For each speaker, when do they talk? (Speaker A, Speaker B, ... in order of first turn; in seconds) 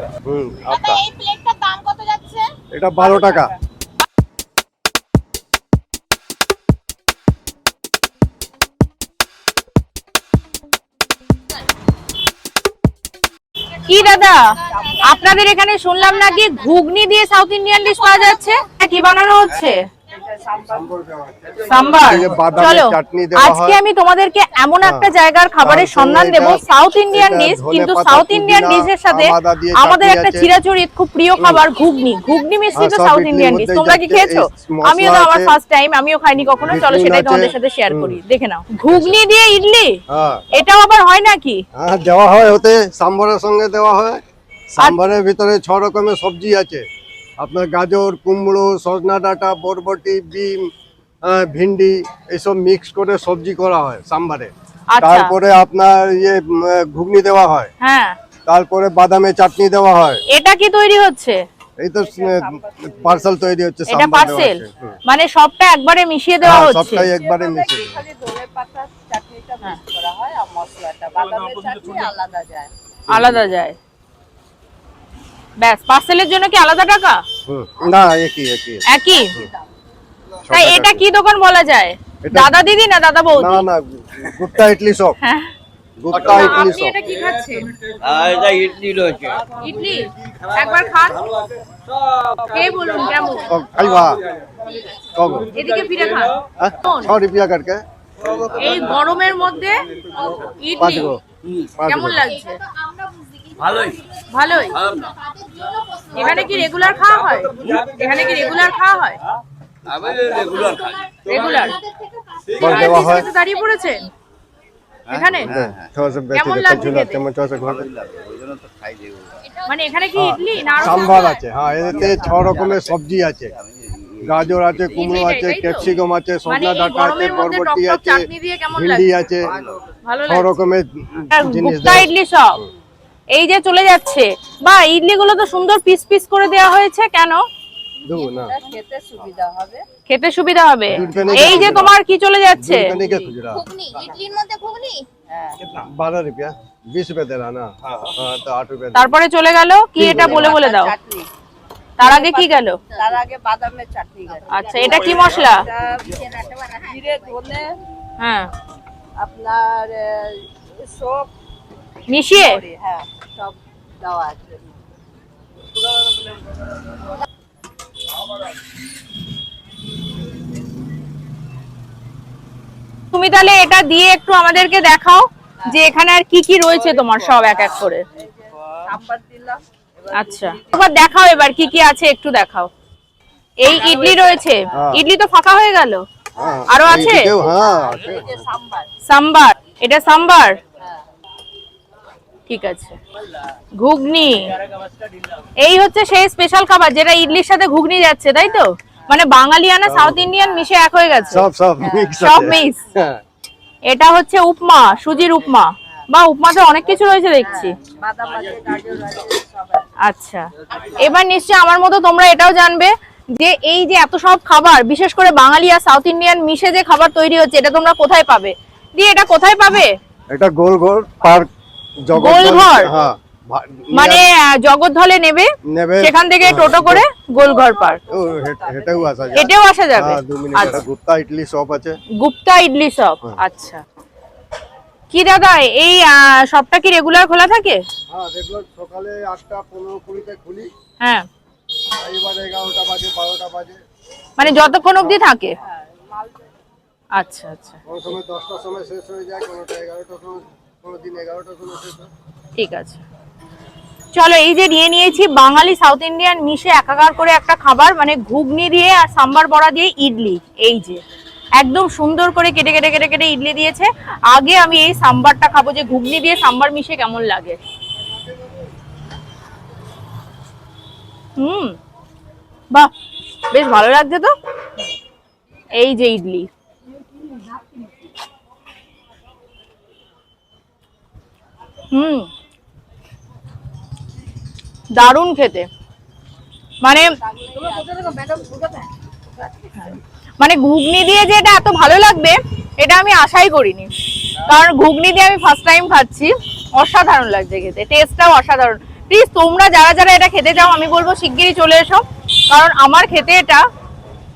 Speaker A: 0.2-1.0, 2.7-3.5, 20.6-23.8, 24.8-25.1, 25.6-30.5, 31.4-31.6, 32.7-35.5, 36.6-38.2, 38.8-39.2, 40.1-40.4, 41.7-46.8, 47.4-50.6, 51.2-57.7, 58.5-60.2, 61.8-65.0, 66.4-68.0, 73.1-73.5, 77.5-79.5, 80.5-81.0, 82.2-82.5, 83.3-85.2, 86.0-87.0, 93.5-94.2, 95.2-95.5, 96.6-97.8, 100.8-101.2, 101.8-102.3, 112.6-113.3, 115.4-117.9, 120.2-123.5, 124.2-129.5, 130.3-132.7, 138.1-138.5, 140.9-142.0, 142.6-143.7, 145.8-149.1, 150.0-150.6, 184.7-185.0, 186.3-188.4, 199.8-200.3, 201.3-203.2, 220.3-221.5, 222.0-224.3, 225.7-227.1, 228.1-232.0, 238.1-240.7, 241.9-243.8, 247.8-252.1
Speaker B: 0.7-2.5, 14.7-14.9, 18.1-18.6, 102.4-106.5, 110.0-113.0, 119.4-119.7, 120.7-121.4, 143.5-145.1, 156.0-157.3
Speaker C: 13.7-19.8, 21.6-40.0, 40.5-41.6, 54.9-55.4, 57.8-58.1, 60.3-61.4, 63.9-67.1, 73.1-73.8, 75.6-77.2, 78.9-79.3, 80.5-83.6, 85.2-85.5, 86.1-87.7, 89.5-91.2, 92.5-93.5, 95.5-97.1, 98.5-99.8, 100.4-101.2, 101.8-102.6, 104.3-104.8, 106.1-109.2, 111.2-111.8, 112.6-114.1, 115.1-115.5, 116.3-117.2, 119.7-121.3, 124.8-125.9, 126.5-129.1, 130.0-130.6, 131.3-132.6, 133.3-137.4, 140.1-142.9, 148.9-150.9, 152.0-152.8, 154.5-155.7, 158.2-158.5, 162.1-162.6, 173.1-178.0, 180.1-182.7, 183.6-186.0, 186.7-187.3, 189.1-190.6, 192.5-193.0, 193.8-194.6, 195.6-201.4, 202.2-202.8, 203.9-207.8, 210.0-219.9, 222.1-222.9, 223.9-228.0, 229.3-230.8, 232.2-233.8, 235.1-237.8, 241.0-241.3, 244.4-245.6, 247.1-247.8, 252.6-253.0, 254.1-261.0, 261.6-267.6, 271.4-271.8, 273.5-274.3, 275.7-276.5, 281.9-282.3, 284.9-285.7, 286.8-287.1, 289.7-303.6
Speaker D: 14.8-15.1, 62.0-63.3, 67.0-72.7, 122.1-122.4, 138.1-139.8, 141.0-141.8, 143.0-143.3, 145.3-145.6, 150.2-151.3, 152.0-156.2, 156.8-157.7, 159.2-161.3, 162.3-164.8, 178.2-180.8, 183.7-184.4, 187.9-188.9, 200.4-200.7, 201.8-202.3, 207.4-209.9, 227.4-229.5, 245.6-246.5, 287.2-288.9
Speaker E: 88.0-89.5, 110.0-110.9, 115.1-115.8, 117.8-119.3, 123.7-124.3